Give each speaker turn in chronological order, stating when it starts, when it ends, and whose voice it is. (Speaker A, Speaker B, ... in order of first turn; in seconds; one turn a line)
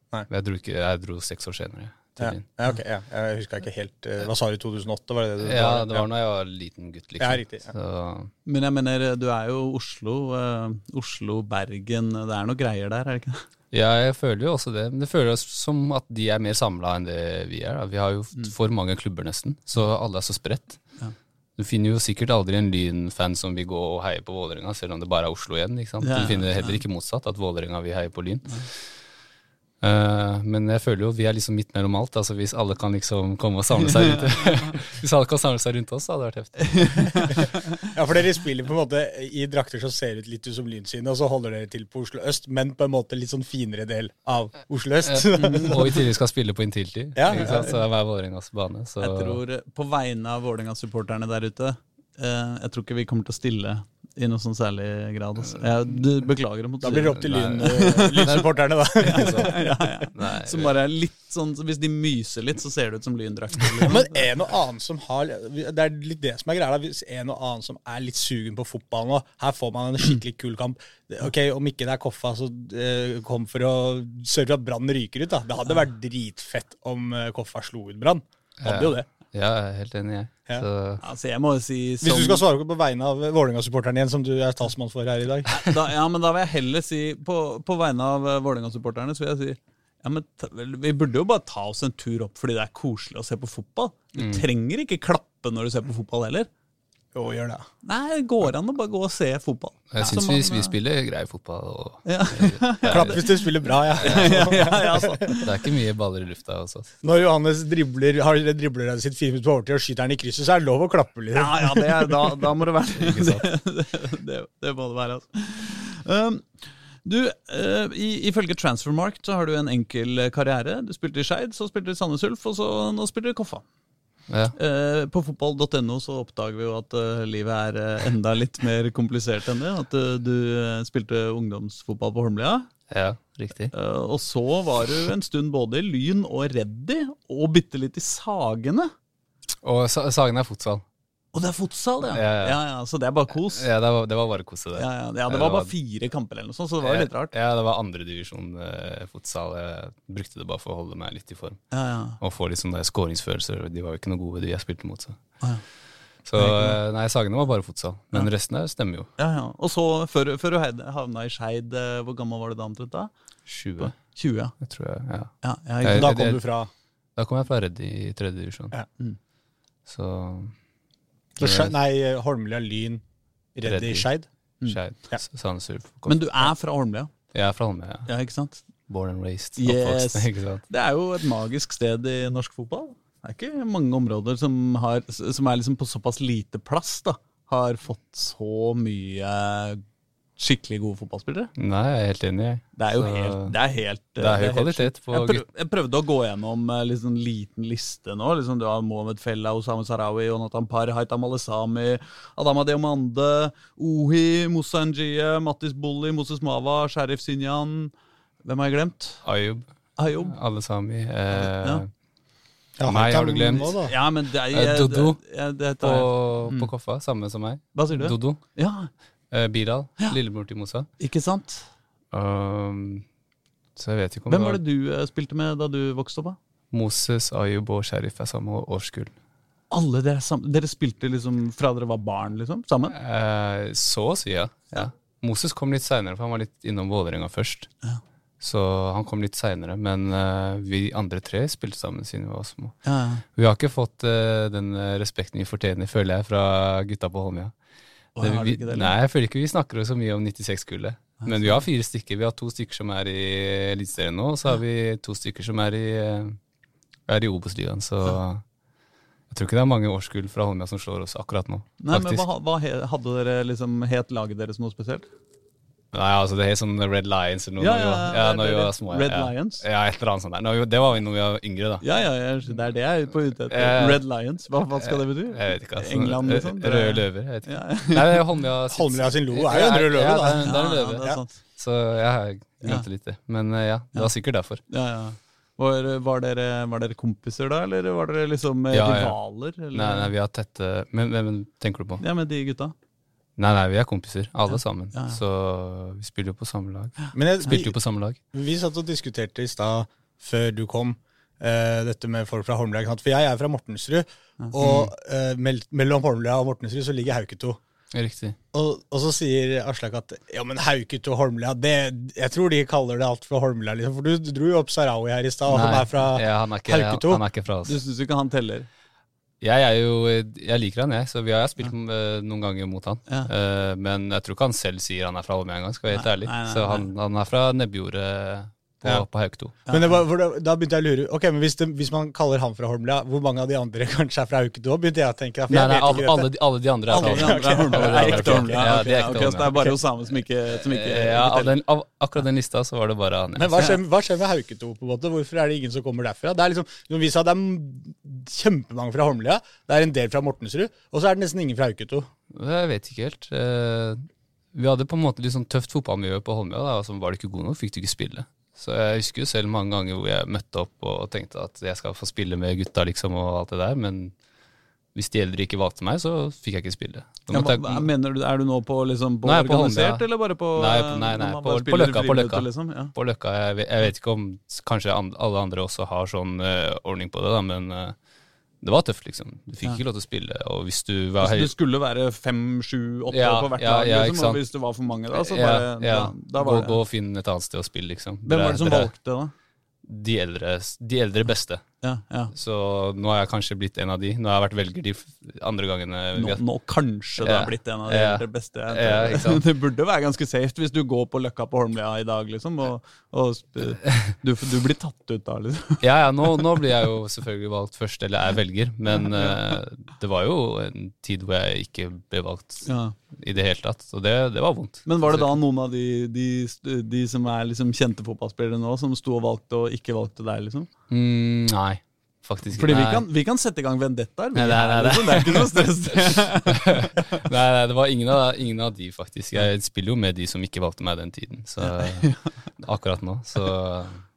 Speaker A: 0.3-2.4
Speaker B: 2.2-6.1
Speaker A: 5.4-8.3
Speaker B: 7.2-7.7
Speaker C: 8.5-13.4
Speaker A: 13.7-20.8
Speaker A: 21.6-28.9
Speaker C: 26.0-26.8
Speaker A: 29.8-37.4
Speaker C: 34.3-34.6
Speaker C: 36.7-37.7
Speaker B: 37.9-46.1
Speaker A: 45.0-49.4
Speaker C: 45.4-45.8
Speaker B: 47.2-47.7
Speaker C: 49.0-58.4
Speaker B: 56.8-59.5
Speaker A: 56.9-58.5
Speaker C: 59.0-64.2
Speaker A: 59.0-60.7
Speaker B: 63.8-79.1
Speaker A: 78.6-81.0
Speaker C: 81.0-82.4
Speaker B: 82.0-85.5
Speaker C: 85.6-96.5
Speaker A: 94.2-94.5
Speaker B: 97.1-97.7
Speaker C: 97.8-100.7
Speaker A: 99.9-103.3
Speaker C: 102.0-105.5
Speaker B: 102.9-105.4
Speaker A: 104.0-104.5
Speaker A: 105.5-106.9
Speaker B: 107.0-112.3
Speaker C: 111.3-123.6
Speaker A: 113.0-113.5
Speaker A: 124.3-124.5
Speaker C: 124.6-132.7
Speaker A: 132.9-133.7
Speaker C: 133.7-138.9
Speaker A: 139.6-140.8
Speaker C: 141.3-143.7
Speaker A: 142.1-142.6
Speaker A: 143.5-145.7
Speaker C: 144.8-147.3
Speaker A: 146.8-151.6
Speaker C: 151.7-152.2
Speaker A: 152.2-155.2
Speaker A: 156.3-159.1
Speaker C: 156.4-156.8
Speaker C: 159.2-163.1
Speaker A: 163.5-164.0
Speaker C: 163.8-164.6
Speaker A: 164.6-166.4
Speaker C: 165.4-166.2
Speaker B: 165.9-166.7
Speaker A: 167.2-168.8
Speaker A: 169.9-170.6
Speaker B: 171.4-173.0
Speaker A: 171.4-171.7
Speaker B: 173.6-174.3
Speaker A: 173.7-174.1
Speaker A: 174.6-176.5
Speaker C: 176.1-177.1
Speaker A: 177.3-178.1
Speaker C: 178.1-178.6
Speaker A: 178.9-180.6
Speaker C: 179.6-189.8
Speaker C: 190.4-191.5
Speaker A: 191.6-193.6
Speaker C: 192.8-207.9
Speaker A: 194.2-195.4
Speaker C: 208.4-209.2
Speaker A: 209.2-211.9
Speaker C: 210.0-210.4
Speaker C: 211.5-211.8
Speaker B: 212.8-213.9
Speaker A: 212.8-215.2
Speaker C: 213.7-216.7
Speaker A: 215.8-218.4
Speaker C: 217.8-218.9
Speaker A: 219.3-220.9
Speaker C: 221.0-221.7
Speaker A: 222.1-223.1
Speaker A: 223.8-224.6
Speaker C: 224.3-226.4
Speaker A: 226.7-229.1
Speaker C: 229.7-233.0
Speaker A: 232.9-237.7
Speaker A: 238.4-242.8
Speaker C: 242.8-243.2
Speaker A: 243.3-247.5
Speaker C: 248.2-248.9
Speaker A: 248.2-256.4
Speaker C: 251.2-251.6
Speaker A: 257.1-258.4
Speaker A: 259.3-262.3
Speaker C: 261.8-265.1
Speaker A: 265.9-271.8
Speaker C: 267.6-269.6
Speaker C: 271.8-278.2
Speaker A: 273.5-274.0
Speaker A: 274.8-284.6
Speaker B: 278.7-280.5
Speaker C: 280.4-281.3
Speaker C: 284.7-290.1
Speaker A: 288.7-289.2
Speaker A: 289.7-292.0
Speaker C: 292.0-292.7
Speaker A: 293.4-298.2
Speaker C: 294.9-295.2
Speaker C: 297.0-297.6
Speaker B: 297.1-297.7
Speaker B: 298.3-307.6
Speaker A: 304.6-304.9
Speaker A: 307.9-308.4
Speaker B: 308.5-317.2
Speaker A: 315.5-317.8
Speaker C: 317.6-318.7
Speaker A: 319.4-329.6
Speaker C: 325.9-326.9
Speaker C: 329.7-330.0
Speaker B: 329.7-336.3
Speaker A: 335.5-339.8
Speaker C: 336.9-341.5
Speaker B: 337.0-339.7
Speaker A: 340.6-343.7
Speaker B: 343.4-352.1
Speaker A: 352.3-364.1
Speaker A: 364.9-367.9
Speaker C: 367.3-372.9
Speaker A: 369.2-377.9
Speaker A: 378.6-381.5
Speaker C: 381.2-386.8
Speaker A: 383.1-384.4
Speaker A: 385.1-388.9
Speaker C: 388.2-389.3
Speaker A: 389.9-391.6
Speaker C: 391.8-392.3
Speaker A: 392.3-396.4
Speaker C: 396.1-405.9
Speaker A: 397.2-399.4
Speaker A: 403.9-404.1
Speaker A: 405.8-415.4
Speaker C: 409.0-409.6
Speaker C: 412.7-413.0
Speaker C: 414.9-420.7
Speaker A: 420.9-423.1
Speaker C: 422.6-426.9
Speaker A: 424.3-434.0
Speaker C: 431.7-432.3